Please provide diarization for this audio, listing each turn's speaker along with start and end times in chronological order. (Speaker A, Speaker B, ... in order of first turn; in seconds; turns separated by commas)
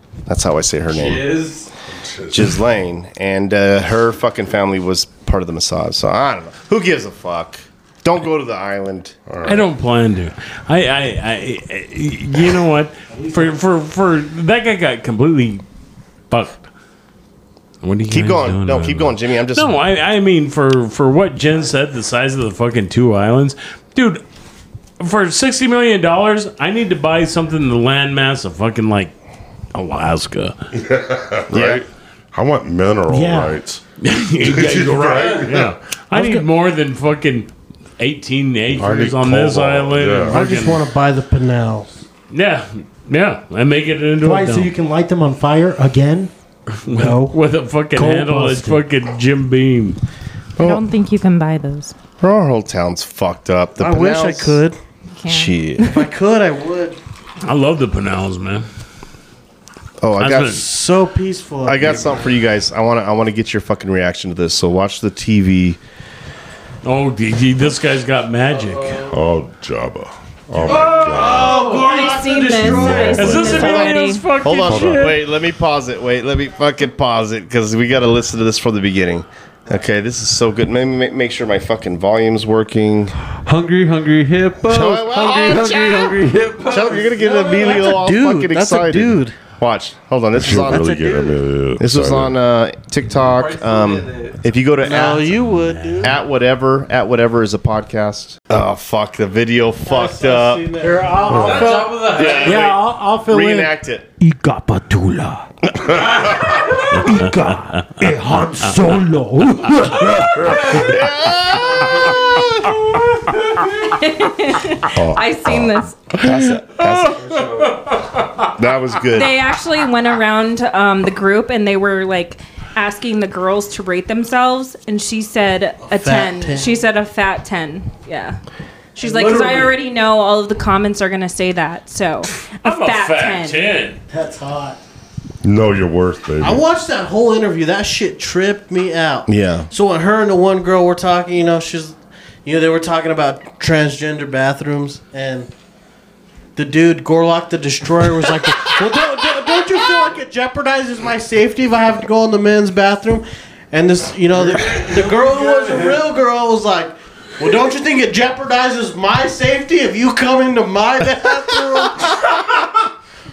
Speaker A: 0.3-1.4, Speaker B: 0.9-1.7, Speaker C: 1.9-2.5, Speaker A: 2.3-9.2, Speaker C: 9.3-9.7, Speaker D: 9.4-15.6, Speaker E: 13.1-13.6, Speaker D: 16.3-16.6, Speaker D: 17.8-24.2, Speaker A: 18.1-19.8, Speaker D: 25.0-29.1, Speaker D: 29.7-30.6, Speaker C: 30.7-33.8, Speaker A: 31.5-31.9, Speaker E: 33.1-33.6, Speaker D: 34.0-40.8, Speaker C: 34.4-35.7, Speaker E: 36.1-36.5, Speaker C: 38.7-40.4, Speaker F: 40.3-42.0, Speaker D: 42.3-44.7, Speaker E: 44.2-46.3, Speaker D: 46.8-50.0, Speaker F: 46.9-47.4, Speaker E: 47.9-48.8, Speaker A: 50.6-50.8, Speaker G: 50.6-51.9, Speaker A: 52.2-54.6, Speaker F: 53.8-54.8, Speaker G: 55.1-56.1, Speaker A: 55.3-55.9, Speaker F: 55.8-57.0, Speaker D: 57.4-58.6, Speaker A: 60.0-60.7, Speaker D: 60.2-60.6, Speaker F: 60.5-62.3, Speaker A: 61.6-65.8, Speaker D: 66.8-69.0, Speaker B: 68.7-69.1, Speaker C: 69.0-71.7, Speaker B: 70.7-71.9, Speaker F: 70.7-73.2, Speaker G: 71.3-74.2, Speaker C: 72.5-73.6, Speaker D: 73.1-75.2, Speaker A: 73.5-83.2, Speaker C: 74.7-75.1, Speaker B: 83.5-87.9, Speaker A: 84.7-91.0, Speaker F: 87.4-89.4, Speaker C: 90.3-92.3, Speaker F: 90.7-91.3, Speaker A: 91.8-95.4, Speaker B: 93.1-94.4, Speaker F: 94.8-96.1, Speaker D: 95.7-96.1, Speaker A: 96.0-100.7, Speaker F: 99.8-101.2, Speaker E: 100.8-111.0, Speaker C: 101.3-101.7, Speaker B: 101.3-102.7, Speaker A: 102.1-104.1, Speaker D: 106.9-108.1, Speaker A: 110.6-112.7, Speaker G: 113.7-116.3, Speaker C: 114.9-115.7, Speaker A: 116.1-117.5, Speaker B: 117.2-117.7, Speaker A: 118.5-119.3, Speaker G: 119.1-128.4, Speaker F: 125.9-126.8, Speaker G: 128.9-133.7, Speaker F: 129.0-129.7, Speaker D: 132.6-134.0, Speaker E: 134.1-134.8, Speaker C: 135.4-136.7, Speaker F: 136.4-145.5, Speaker A: 139.3-139.7, Speaker F: 146.6-162.4